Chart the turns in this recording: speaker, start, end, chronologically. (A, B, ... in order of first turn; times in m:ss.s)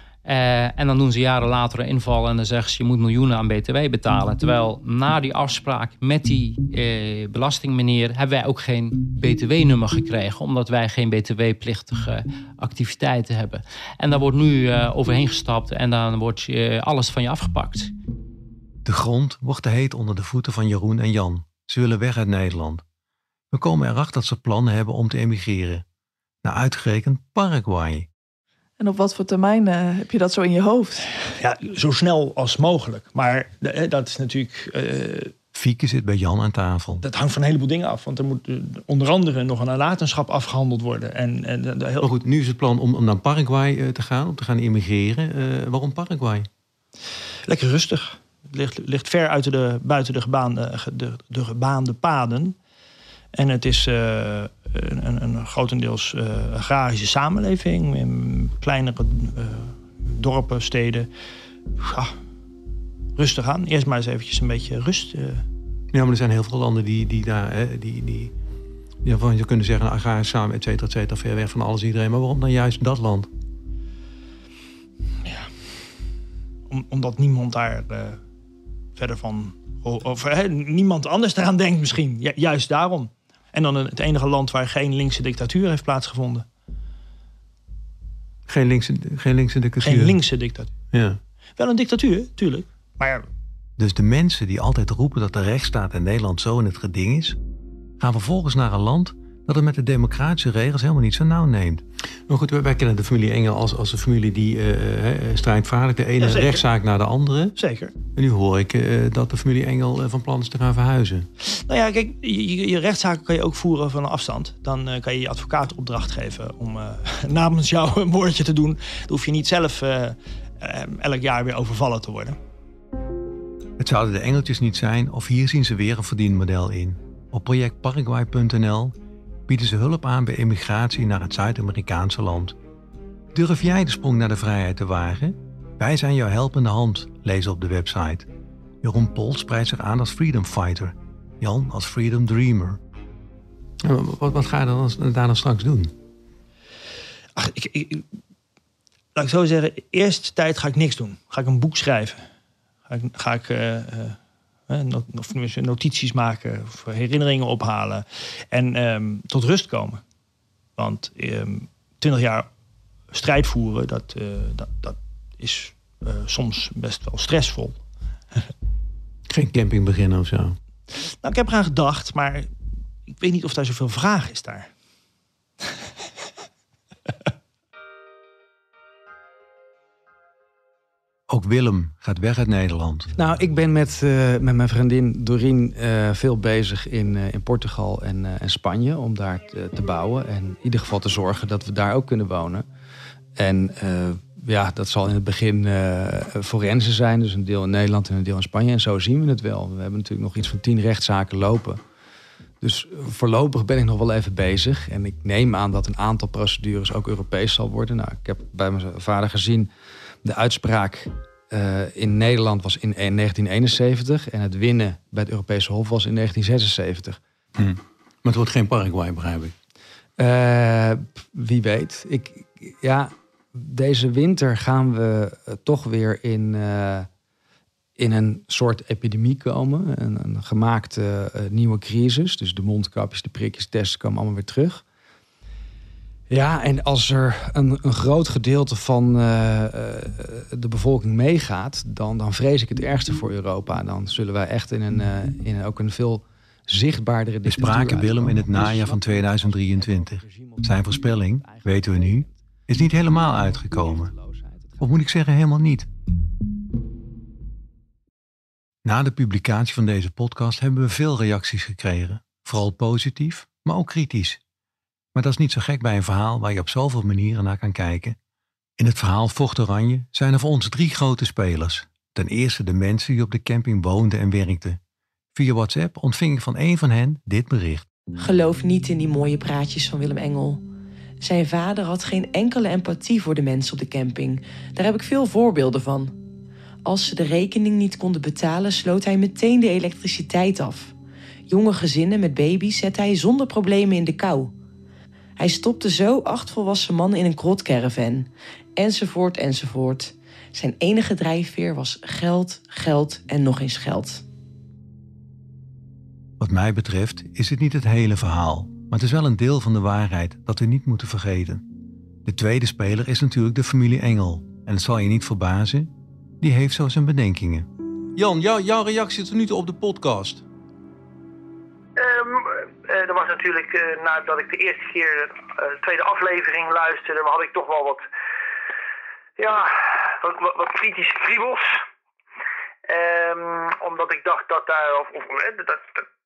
0:00.2-0:17.9 A
0:18.8-0:22.8 B
0:23.5-0:25.8 B
0:26.4-0:28.1 B
0:28.8-0:31.1 C
0:31.4-0:35.3 D
0:35.5-0:37.0 B
0:37.0-0:42.1 D
0:42.0-0:46.5 B
0:47.5-0:52.5 D
0:53.3-1:01.1 D
1:01.8-1:02.1 D
1:03.2-1:05.4 D
1:05.9-1:08.3 B
1:09.0-1:13.3 B
1:16.7-1:18.2 D
1:19.0-1:26.4 D
1:28.5-1:30.2 B
1:29.8-1:30.7 D
1:30.9-1:31.2 B
1:31.6-1:33.2 D
1:33.8-1:37.4 B
1:38.0-1:47.6 B
1:46.2-1:46.6 D
1:47.6-1:47.9 D
1:48.1-1:51.3 B
1:51.7-2:02.4 D
2:03.8-2:08.9 B
2:09.5-2:12.6 B
2:13.3-2:18.3 B
2:18.8-2:22.8 B
2:23.8-2:25.9 B
2:27.4-2:28.0 D
2:29.2-2:32.2 D
2:32.9-2:34.2 D
2:34.7-2:40.0 D
2:40.8-2:42.5 D
2:43.1-2:47.8 D
2:49.3-2:50.6 B
2:51.1-2:52.5 D
2:53.1-2:54.7 D
3:01.3-3:03.1 B
3:03.2-3:12.6 E
3:13.4-3:21.8 E
3:22.6-3:29.7 E
3:30.2-3:37.2 E
3:37.6-3:39.5 B
3:40.2-3:47.1 E
3:48.0-3:54.8 E
3:56.3-4:14.9 E
4:07.4-4:14.1 B
4:14.8-4:15.9 B
4:18.8-4:24.4 B
4:25.1-4:28.2 B
4:28.8-4:34.8 B
4:35.3-4:37.9 B
4:38.2-4:40.6 F
4:41.2-4:46.2 F
4:46.8-4:50.9 F
4:51.5-4:54.5 F
4:55.4-5:04.2 F
5:06.4-5:11.6 B
5:12.2-5:20.4 B
5:22.0-5:28.0 G
5:29.4-5:31.8 G
5:32.9-5:36.0 G